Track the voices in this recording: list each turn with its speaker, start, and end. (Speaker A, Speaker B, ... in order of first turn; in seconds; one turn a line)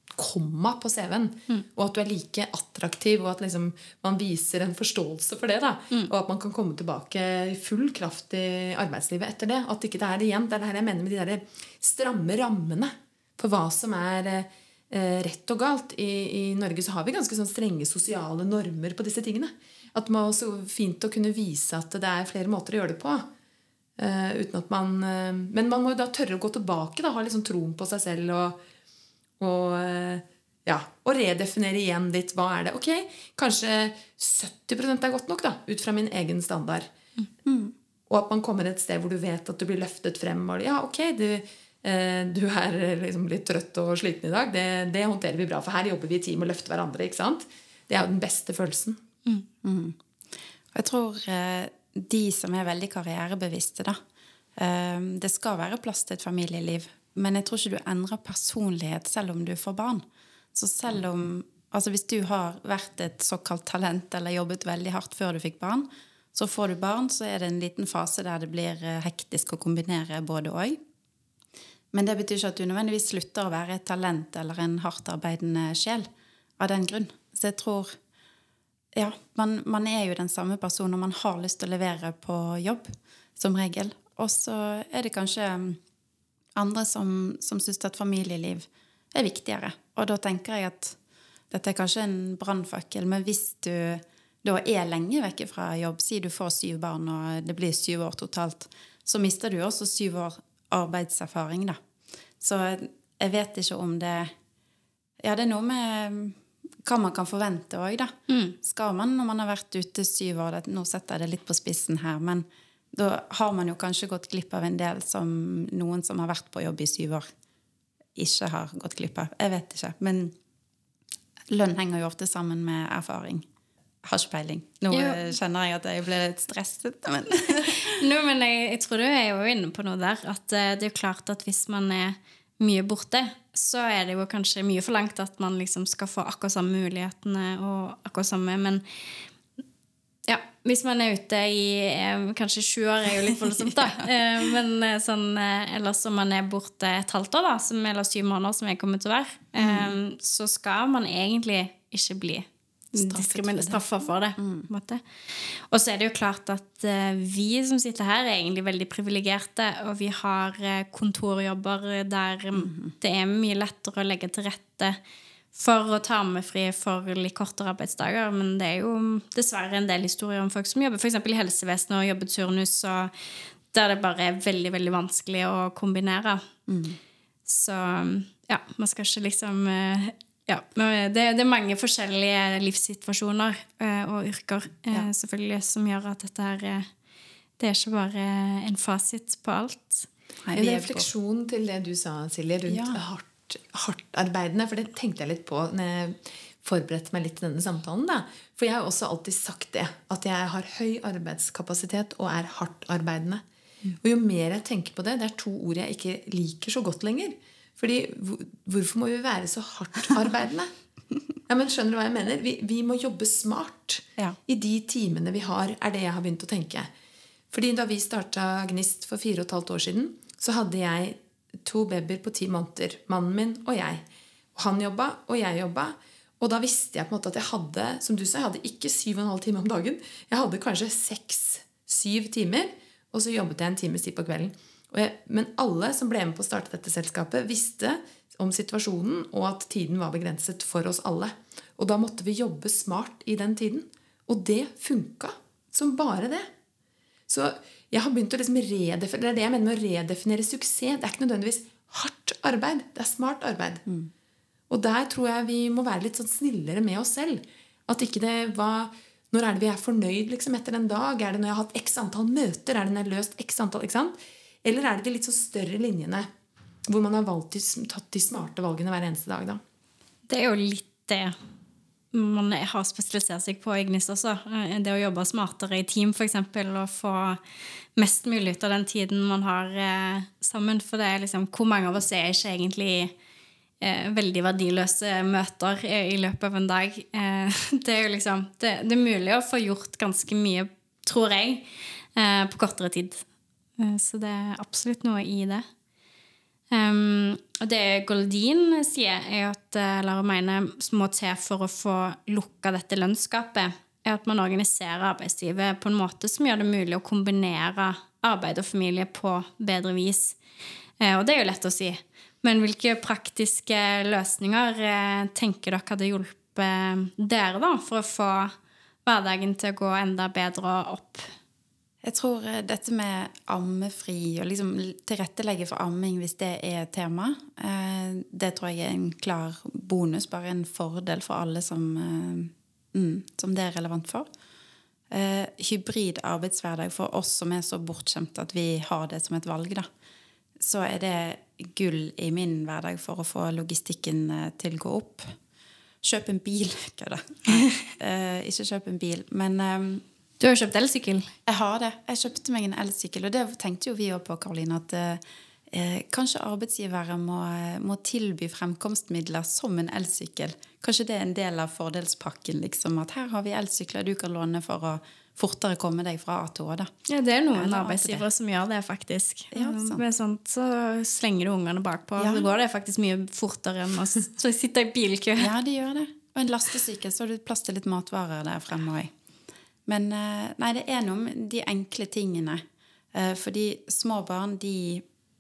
Speaker A: 0.1-23.3
Speaker A: 24.0-28.6
Speaker A: 29.4-36.9
Speaker B: 37.5-37.7
Speaker A: 38.1-49.0
Speaker B: 49.6-50.0
Speaker B: 50.7-54.0
Speaker B: 54.5-70.8
Speaker B: 71.9-76.1
Speaker B: 76.6-77.9
Speaker B: 78.9-85.8
Speaker B: 86.5-91.0
Speaker B: 91.5-101.8
Speaker B: 102.4-104.3
Speaker B: 105.2-117.3
Speaker C: 108.3-108.5
Speaker B: 118.1-120.3
Speaker B: 121.5-123.5
Speaker B: 124.0-128.0
Speaker C: 124.9-125.3
Speaker C: 127.7-138.8
Speaker C: 140.3-165.0
Speaker B: 143.5-143.9
Speaker B: 149.6-149.9
Speaker B: 153.0-153.8
Speaker B: 154.4-154.7
Speaker B: 162.5-162.9
Speaker C: 165.5-173.1
Speaker C: 173.7-176.4
Speaker B: 176.7-177.0
Speaker C: 177.4-186.9
Speaker C: 187.6-190.1
Speaker B: 190.4-191.1
Speaker A: 190.5-203.4
Speaker B: 192.7-193.0
Speaker A: 204.0-210.7
Speaker A: 211.5-216.9
Speaker A: 217.5-224.0
Speaker A: 224.5-246.5
Speaker A: 247.3-253.8
Speaker A: 254.7-266.3
Speaker A: 266.9-269.6
Speaker C: 270.3-271.3
Speaker C: 272.1-277.4
Speaker C: 277.9-283.1
Speaker C: 283.8-293.2
Speaker C: 293.8-295.6
Speaker C: 296.7-310.4
Speaker C: 311.0-318.5
Speaker C: 319.0-321.3
Speaker B: 322.0-334.3
Speaker B: 335.1-339.9
Speaker B: 340.6-345.3
Speaker B: 346.0-350.0
Speaker C: 350.4-351.3
Speaker B: 351.4-366.9
Speaker C: 367.1-375.5
Speaker B: 367.5-368.2
Speaker B: 369.5-370.0
Speaker B: 372.2-372.4
Speaker B: 375.4-379.1
Speaker B: 379.9-382.6
Speaker B: 383.1-385.0